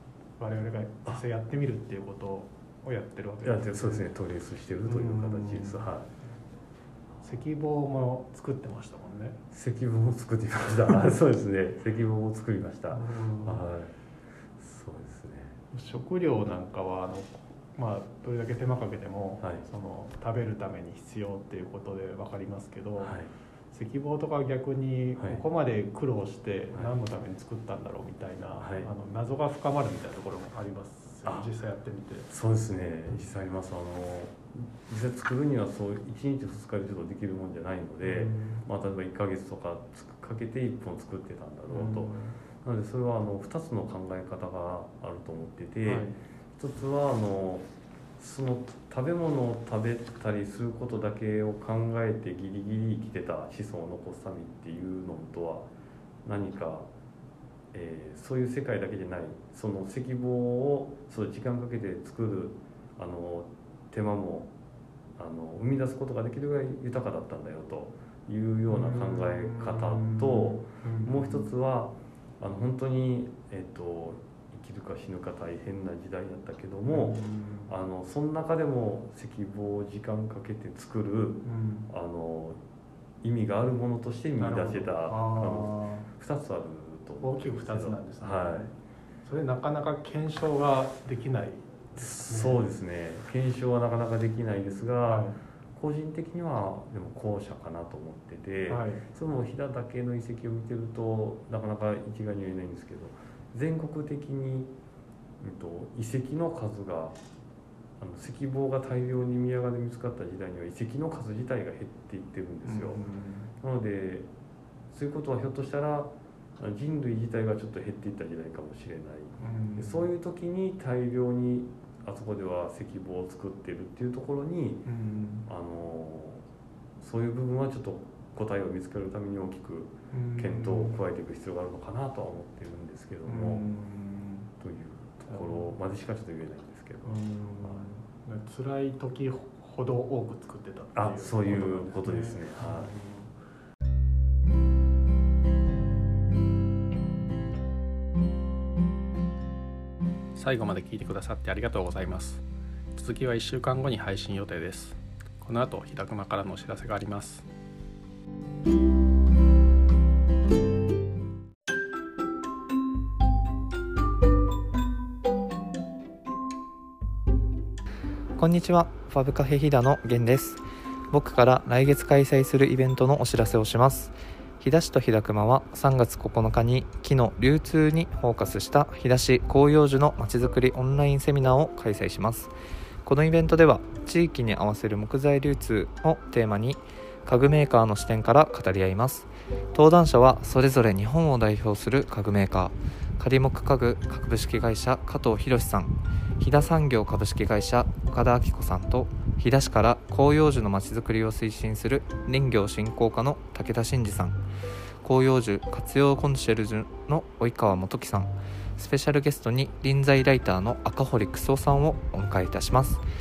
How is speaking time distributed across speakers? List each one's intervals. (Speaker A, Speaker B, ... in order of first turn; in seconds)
Speaker A: 0.4-4.1, 4.9-5.9, 7.2-9.4, 12.9-13.7, 15.7-32.3, 38.0-38.6, 41.7-42.4, 45.9-46.2, 68.7-71.5, 76.9-77.7, 81.4-81.9, 84.4-86.1, 87.2-88.7, 89.2-92.6, 95.1-95.4, 98.7-99.0, 112.6-113.5, 119.4-120.1, 124.9-125.5, 130.1-131.0, 133.3-134.5, 135.3-135.7, 137.0-143.3, 150.3-157.5
Speaker B: 3.4-6.1, 9.5-13.9, 14.6-15.6, 23.0-23.3, 28.6-28.9, 32.3-55.7, 56.2-56.9, 57.7-64.5, 65.2-82.6, 83.2-88.7, 92.0-104.7, 105.4-107.2, 108.0-113.0, 113.6-114.3, 114.9-124.9, 125.5-126.4, 127.0-133.7, 134.6-137.9, 140.9-142.9
Speaker C: 168.4-182.5, 183.1-204.4, 205.0-213.0